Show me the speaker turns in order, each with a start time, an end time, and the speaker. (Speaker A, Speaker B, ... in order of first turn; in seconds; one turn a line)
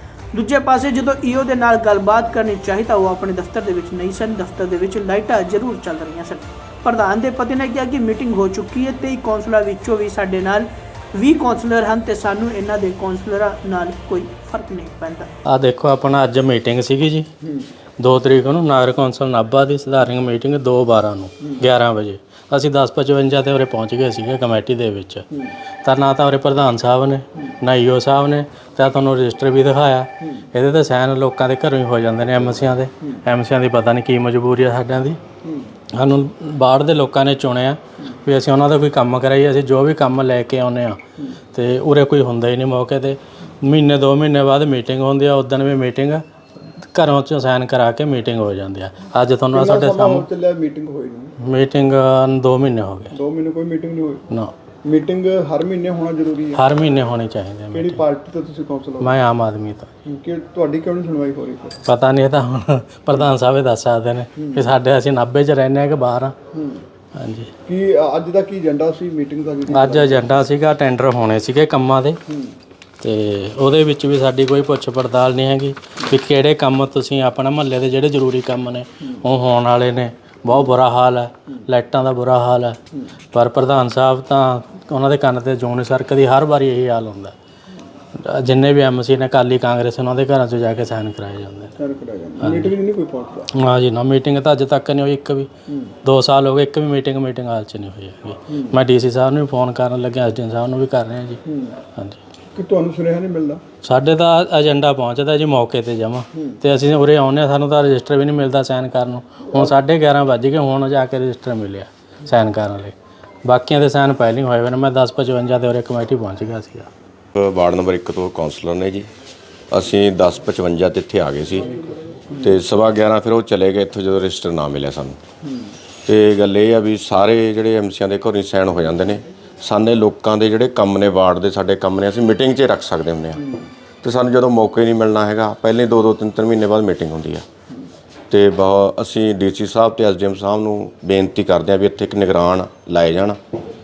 Speaker A: 0.3-15.3
Speaker B: 15.4-17.3
Speaker B: 18.0-25.2
Speaker B: 25.8-35.2
Speaker C: 35.4-35.7
Speaker B: 36.0-41.0
Speaker B: 41.5-46.2
Speaker B: 46.9-50.3
Speaker C: 49.5-51.3
Speaker B: 51.5-53.1
Speaker C: 53.1-54.2
Speaker C: 54.8-56.6
Speaker B: 56.5-58.0
Speaker C: 57.7-59.2
Speaker B: 59.0-59.9
Speaker C: 60.0-61.8
Speaker B: 61.8-66.3
Speaker C: 64.4-64.7
Speaker C: 66.5-66.8
Speaker B: 67.2-67.5
Speaker C: 67.7-70.3
Speaker B: 69.7-72.2
Speaker C: 72.3-72.5
Speaker B: 73.0-82.8
Speaker B: 83.3-87.3
Speaker B: 88.2-91.7
Speaker C: 91.8-93.5
Speaker B: 92.4-92.7
Speaker B: 93.6-95.5
Speaker B: 96.0-101.4
Speaker C: 98.5-98.7
Speaker C: 101.5-101.8
Speaker C: 102.5-103.6
Speaker B: 103.8-116.9
Speaker D: 117.3-119.1
Speaker D: 119.7-121.7
Speaker D: 122.4-125.2
Speaker C: 125.4-125.7
Speaker D: 126.0-133.4
Speaker C: 133.4-133.7
Speaker D: 134.0-137.4
Speaker D: 138.3-143.4